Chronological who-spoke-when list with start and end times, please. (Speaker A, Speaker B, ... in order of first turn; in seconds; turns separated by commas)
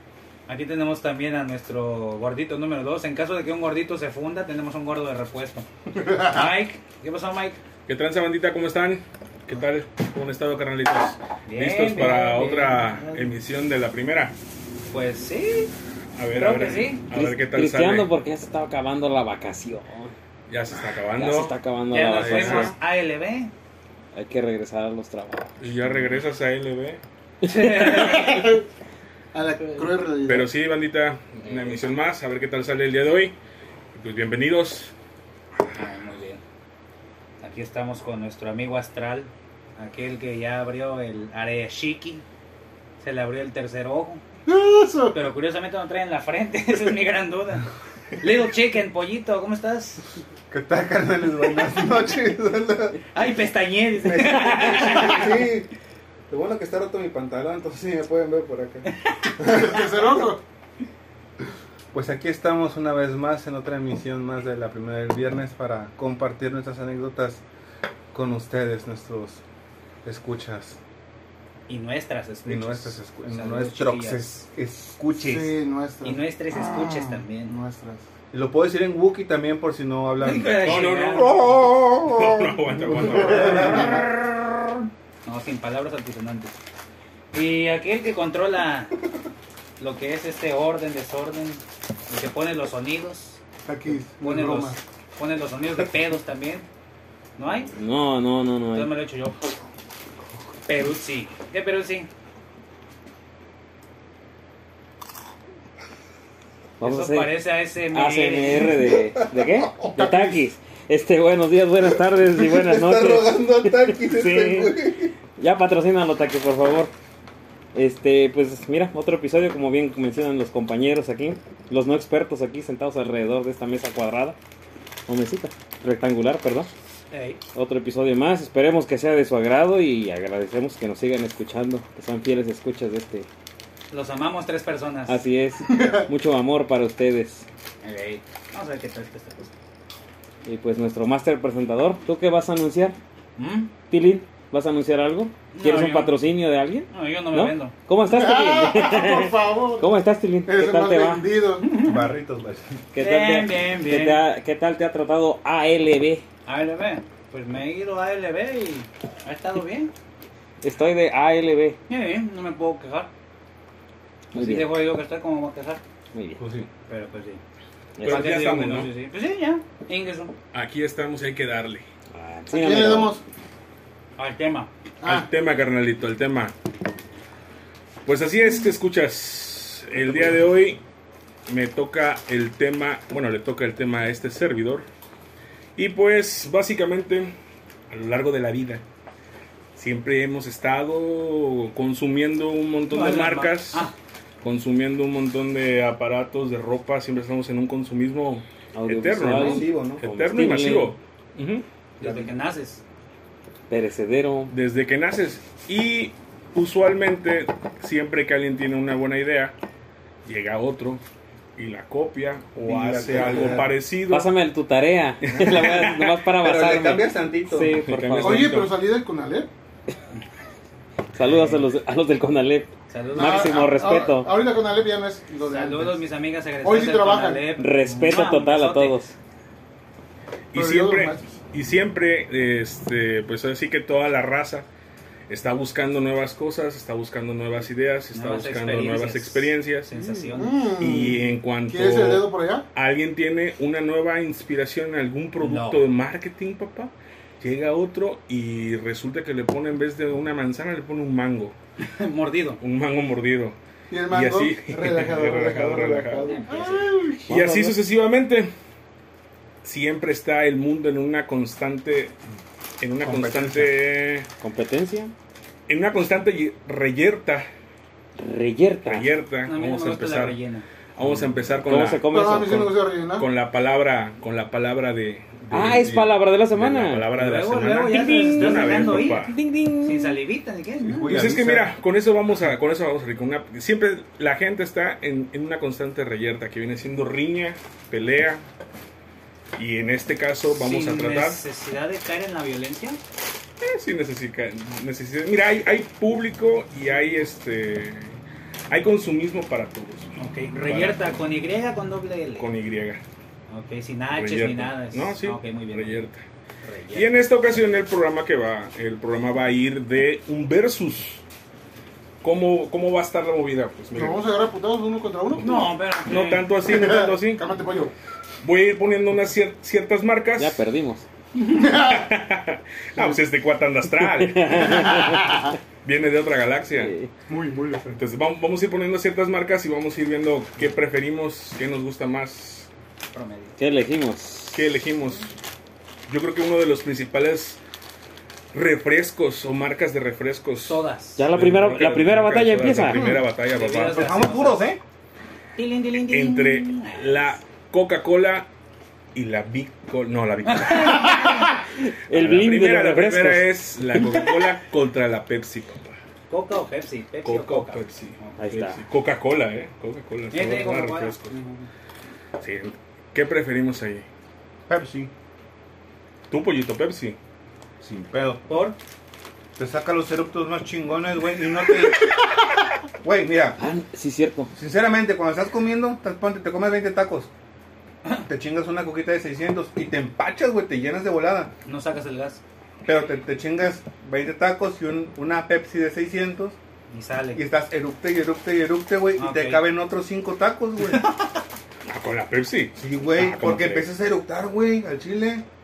Speaker A: 0.5-5.7, Speaker B: 5.9-6.5, Speaker A: 6.2-7.6, Speaker C: 7.9-14.3, Speaker A: 11.5-13.3, Speaker A: 14.9-15.7, Speaker C: 16.1-18.1, Speaker A: 16.4-17.0, Speaker D: 17.1-20.1, Speaker C: 20.5-21.6, Speaker D: 21.2-22.7, Speaker A: 21.9-23.5, Speaker C: 22.1-22.7, Speaker D: 24.1-25.6, Speaker C: 25.6-27.0, Speaker D: 27.4-27.9, Speaker A: 27.4-28.6, Speaker B: 27.8-28.6, Speaker B: 29.3-30.5, Speaker A: 29.6-29.9, Speaker C: 30.3-33.4, Speaker C: 33.9-34.9, Speaker A: 35.8-36.4, Speaker A: 37.4-42.2, Speaker A: 43.0-44.2, Speaker B: 44.5-45.2, Speaker A: 45.1-47.7, Speaker A: 48.2-50.0, Speaker E: 50.5-53.0, Speaker A: 53.1-55.4, Speaker E: 54.0-55.7, Speaker E: 56.3-58.9, Speaker B: 59.4-60.4, Speaker E: 61.9-67.4, Speaker E: 68.1-69.4, Speaker E: 70.0-70.8, Speaker A: 71.7-74.3, Speaker E: 72.5-75.5, Speaker B: 75.1-78.0, Speaker A: 76.0-77.5, Speaker E: 78.3-84.0, Speaker A: 80.2-81.5, Speaker C: 80.6-84.0, Speaker B: 83.3-84.0, Speaker A: 85.2-86.6, Speaker A: 87.3-89.0, Speaker A: 89.8-93.4, Speaker B: 93.7-94.8, Speaker A: 94.2-96.7, Speaker A: 97.4-97.7, Speaker D: 97.8-98.9, Speaker A: 98.7-99.4, Speaker A: 100.7-102.1, Speaker D: 106.8-107.4, Speaker A: 106.8-108.7, Speaker D: 107.9-116.9, Speaker E: 108.8-109.9, Speaker B: 110.0-110.4, Speaker E: 112.2-115.1, Speaker D: 117.7-124.4, Speaker D: 125.1-126.7, Speaker A: 127.1-127.4, Speaker D: 127.5-133.3, Speaker A: 133.9-135.2, Speaker D: 135.1-137.4, Speaker B: 135.7-136.1, Speaker A: 137.8-139.5, Speaker D: 140.4-143.0, Speaker A: 143.4-143.7, Speaker D: 143.9-151.3, Speaker A: 145.5-146.2, Speaker A: 146.9-147.8, Speaker B: 148.1-151.7, Speaker A: 151.6-152.1, Speaker E: 151.8-152.8, Speaker D: 152.9-156.2, Speaker A: 153.0-154.3, Speaker A: 156.5-159.9, Speaker D: 160.6-161.8, Speaker A: 161.9-163.1, Speaker D: 164.3-164.8, Speaker A: 164.3-165.8, Speaker D: 166.1-166.4, Speaker E: 166.4-166.7, Speaker A: 166.9-167.4, Speaker D: 168.0-168.4, Speaker C: 168.0-168.9, Speaker A: 168.0-170.3, Speaker C: 170.5-171.8, Speaker D: 172.1-173.2, Speaker B: 172.5-173.2, Speaker A: 174.2-174.7, Speaker B: 175.0-175.3, Speaker C: 175.1-176.6, Speaker C: 178.1-180.8, Speaker C: 181.5-184.9, Speaker C: 185.8-187.3, Speaker C: 187.9-188.8, Speaker C: 189.8-193.9, Speaker A: 192.9-193.9, Speaker C: 194.4-201.7, Speaker D: 198.8-201.0, Speaker E: 199.3-200.0, Speaker A: 202.0-202.8, Speaker D: 203.7-204.5, Speaker C: 204.5-209.6, Speaker C: 210.2-211.0, Speaker C: 211.6-214.3, Speaker E: 212.7-213.7, Speaker D: 214.1-218.6, Speaker E: 215.2-217.8, Speaker C: 217.8-218.7, Speaker B: 218.2-219.5, Speaker D: 221.1-224.3, Speaker A: 222.9-223.5, Speaker B: 223.2-226.0, Speaker A: 225.4-229.1, Speaker B: 226.6-227.5, Speaker D: 227.6-229.1, Speaker C: 230.5-234.7, Speaker B: 230.6-231.3, Speaker C: 235.3-239.9, Speaker A: 238.1-240.7, Speaker B: 239.9-242.7, Speaker C: 240.8-251.6, Speaker A: 245.4-245.8, Speaker A: 251.8-252.6, Speaker C: 252.6-253.6, Speaker B: 253.9-257.3, Speaker C: 254.1-256.2, Speaker A: 256.1-256.9, Speaker D: 257.3-257.8, Speaker C: 257.3-258.5, Speaker C: 259.6-262.1, Speaker C: 262.8-264.3, Speaker E: 263.0-263.7, Speaker D: 264.4-265.1, Speaker C: 265.7-267.5, Speaker D: 268.2-269.1, Speaker C: 268.9-270.4, Speaker A: 269.5-270.7, Speaker C: 271.0-272.1, Speaker D: 271.6-272.8, Speaker B: 272.1-273.3, Speaker C: 273.2-279.4, Speaker D: 275.5-277.2, Speaker A: 277.2-279.3, Speaker D: 277.9-280.2, Speaker A: 279.8-281.2, Speaker E: 280.8-281.7, Speaker C: 281.1-288.4, Speaker C: 289.6-291.4, Speaker A: 290.5-293.0, Speaker C: 293.6-298.2, Speaker C: 298.7-301.2, Speaker A: 300.2-302.5, Speaker C: 302.4-303.0, Speaker A: 303.5-306.0, Speaker C: 304.1-306.2, Speaker A: 306.6-307.1, Speaker C: 306.9-311.2, Speaker C: 312.2-314.2, Speaker B: 313.9-315.5, Speaker A: 315.4-316.5, Speaker C: 315.4-317.4, Speaker B: 316.6-317.9, Speaker C: 318.4-320.6, Speaker D: 320.4-321.1, Speaker B: 321.4-322.1, Speaker C: 321.5-325.1, Speaker D: 324.1-325.3, Speaker B: 324.7-325.6, Speaker C: 325.8-326.9, Speaker D: 326.8-327.1, Speaker B: 327.3-328.0, Speaker C: 327.9-332.7, Speaker A: 333.1-333.6, Speaker D: 333.6-334.6, Speaker C: 334.5-335.3, Speaker C: 336.1-337.6, Speaker C: 338.5-344.2, Speaker A: 340.7-341.3, Speaker D: 341.2-343.1, Speaker E: 342.8-343.2, Speaker A: 343.5-344.6, Speaker E: 343.8-344.8, Speaker A: 345.6-347.3, Speaker C: 346.1-348.5, Speaker C: 349.1-351.2, Speaker A: 350.5-351.6, Speaker D: 351.1-354.3, Speaker C: 352.1-356.0, Speaker A: 356.3-358.4, Speaker C: 357.2-361.3, Speaker D: 358.4-358.8, Speaker A: 360.3-361.7, Speaker C: 362.4-364.1, Speaker E: 364.7-365.1, Speaker C: 366.3-367.2, Speaker E: 367.8-368.4, Speaker A: 368.5-368.8, Speaker E: 369.6-372.1, Speaker E: 373.0-373.6, Speaker D: 373.6-374.5, Speaker E: 374.6-377.3, Speaker E: 378.3-381.5, Speaker A: 381.7-382.4, Speaker E: 382.8-386.6, Speaker A: 386.9-387.4, Speaker E: 387.4-391.0, Speaker A: 389.2-389.7, Speaker A: 390.8-391.4, Speaker C: 391.9-393.9, Speaker E: 392.8-395.4